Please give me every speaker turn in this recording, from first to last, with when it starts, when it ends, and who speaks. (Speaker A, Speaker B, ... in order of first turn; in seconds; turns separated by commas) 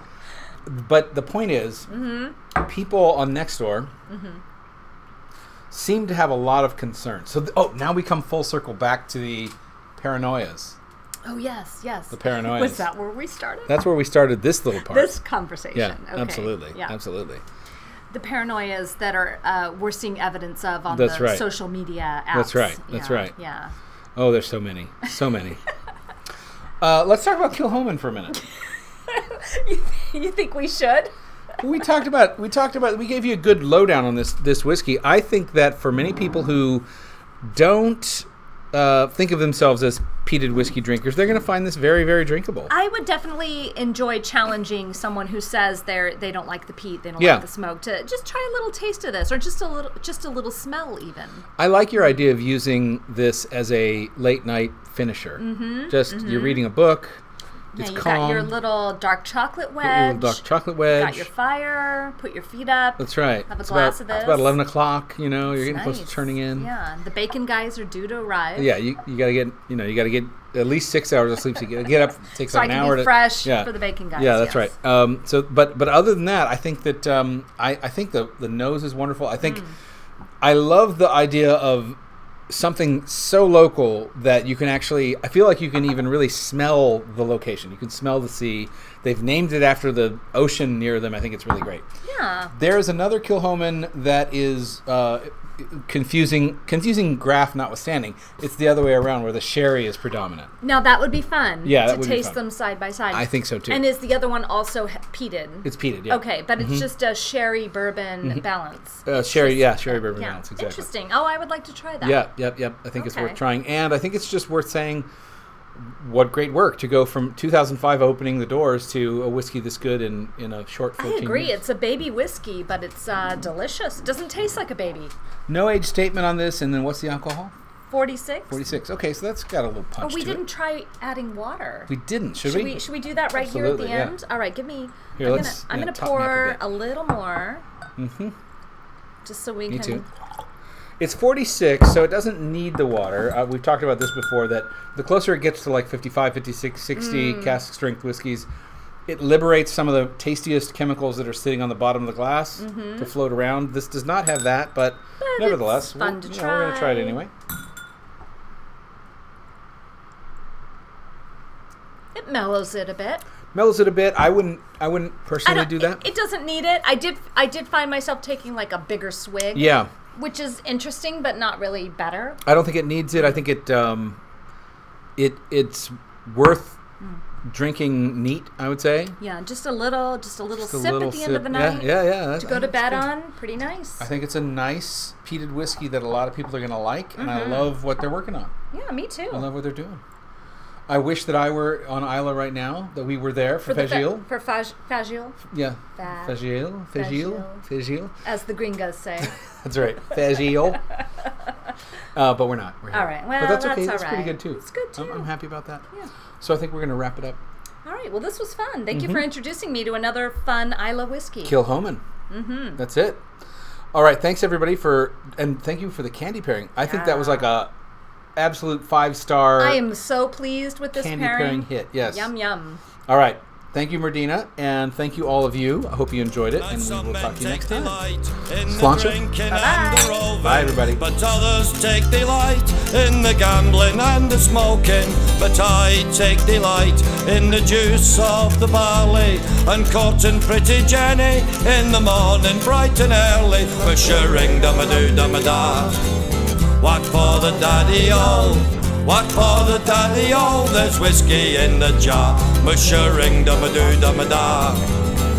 Speaker A: 0.7-1.9, Speaker B: 1.9-2.4, Speaker A: 2.5-3.9, Speaker B: 4.1-4.4, Speaker A: 5.7-10.8, Speaker B: 11.3-13.8, Speaker A: 12.1-12.9, Speaker A: 13.7-15.2, Speaker B: 14.9-16.9, Speaker A: 15.7-17.4, Speaker B: 18.1-23.7, Speaker A: 20.9-21.5, Speaker A: 22.3-23.3, Speaker A: 24.2-25.6, Speaker A: 26.8-28.4, Speaker B: 29.1-31.1, Speaker A: 31.6-36.9, Speaker A: 37.4-42.7, Speaker B: 42.7-51.5, Speaker A: 47.2-47.4, Speaker A: 51.6-57.2, Speaker B: 55.4-56.6, Speaker B: 57.8-64.6, Speaker A: 57.8-58.5, Speaker A: 59.8-61.3, Speaker A: 63.0-66.7, Speaker B: 65.5-68.7, Speaker A: 68.6-79.7, Speaker B: 72.5-74.7, Speaker B: 79.4-79.8, Speaker A: 80.4-82.0, Speaker A: 82.5-91.9, Speaker B: 92.0-92.5, Speaker A: 92.5-100.5, Speaker B: 100.6-112.2, Speaker A: 101.6-102.4, Speaker A: 103.1-103.9, Speaker A: 105.7-106.9, Speaker A: 109.1-110.9, Speaker A: 112.0-115.1, Speaker B: 113.0-113.4, Speaker A: 115.8-121.6, Speaker B: 121.0-125.1, Speaker A: 125.5-127.5, Speaker B: 127.9-128.6, Speaker A: 128.5-130.4, Speaker B: 130.0-137.6, Speaker A: 131.9-134.2, Speaker A: 135.2-136.6, Speaker A: 138.0-138.3, Speaker B: 139.2-140.1, Speaker A: 139.7-140.1, Speaker A: 141.0-148.5, Speaker B: 146.9-147.6, Speaker A: 149.1-157.3, Speaker B: 152.6-153.1, Speaker B: 155.2-157.2, Speaker B: 162.2-163.2, Speaker A: 163.5-166.1, Speaker B: 165.4-172.4, Speaker A: 169.6-169.9, Speaker A: 172.4-174.2, Speaker A: 175.2-176.8, Speaker A: 177.4-179.2, Speaker B: 179.2-184.1, Speaker A: 180.6-183.1, Speaker A: 184.0-188.5, Speaker B: 187.2-187.7, Speaker B: 188.7-189.5, Speaker A: 189.3-190.0, Speaker A: 190.9-194.3, Speaker B: 193.7-195.4, Speaker A: 195.5-198.1, Speaker B: 196.0-196.4, Speaker B: 196.9-197.6, Speaker B: 198.2-199.3, Speaker A: 199.2-200.8, Speaker A: 202.2-205.8, Speaker B: 202.9-205.3, Speaker A: 206.4-207.4, Speaker B: 207.8-211.6, Speaker A: 208.9-209.2, Speaker A: 211.4-212.0, Speaker B: 212.3-212.8, Speaker A: 212.8-213.2, Speaker A: 213.9-217.7, Speaker B: 216.8-217.5, Speaker A: 218.4-219.8, Speaker B: 219.6-222.8, Speaker A: 220.9-222.3, Speaker A: 223.1-228.0, Speaker C: 226.6-246.0, Speaker A: 228.6-229.2, Speaker B: 229.5-230.3, Speaker A: 230.4-231.1, Speaker C: 246.8-255.1